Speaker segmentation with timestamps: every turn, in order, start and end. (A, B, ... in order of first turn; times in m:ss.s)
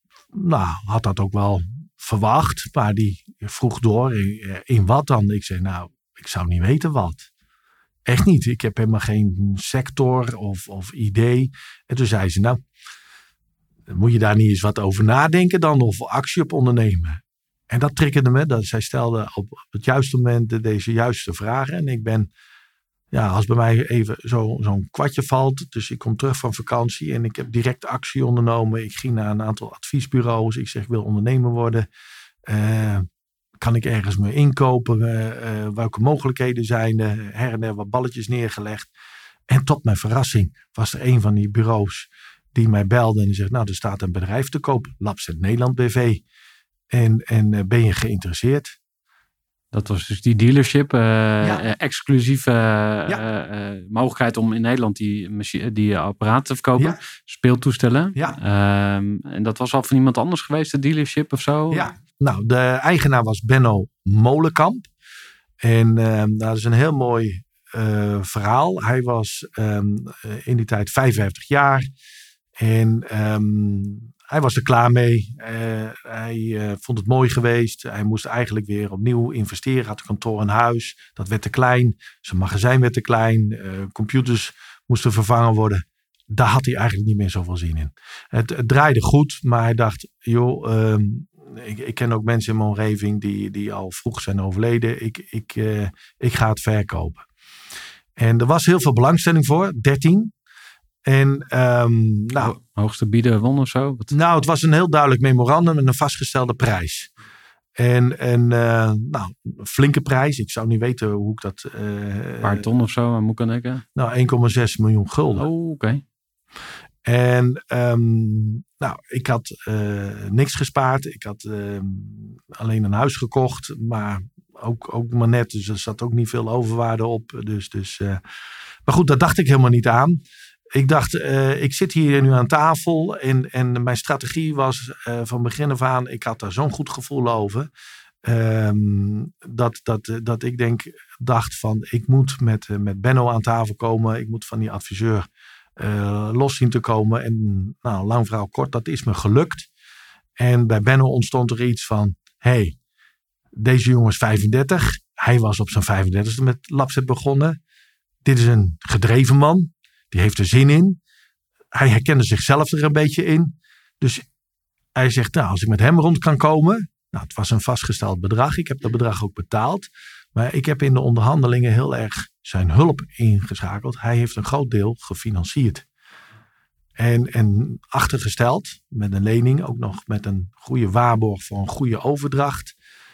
0:00.3-0:07.3 A
0:08.0-0:12.6 A
0:13.9-0:22.3 A
0:23.1-0:31.9 A
0:32.4-0:33.0 A
0:33.6-0:38.9 A
0:39.5-0:46.2 A
0:46.9-0:48.8 A
0:49.7-1:01.9 B
1:01.7-1:04.9 A
1:05.6-1:11.9 A
1:12.6-1:37.2 A
1:38.2-1:40.3 A
1:41.0-1:42.5 A
1:42.4-1:44.1 B
1:44.1-1:47.1 A
1:47.8-1:52.6 A
1:52.4-1:53.8 B
1:53.9-1:55.5 A
1:55.4-1:56.0 B
1:57.0-2:08.2 A
2:08.8-2:10.2 A
2:10.7-2:17.7 A
2:18.2-2:29.7 A
2:30.4-2:32.8 A
2:33.5-2:37.6 A
2:38.2-2:41.0 A
2:41.7-2:44.2 A
2:44.9-2:55.8 A
2:57.0-3:02.7 A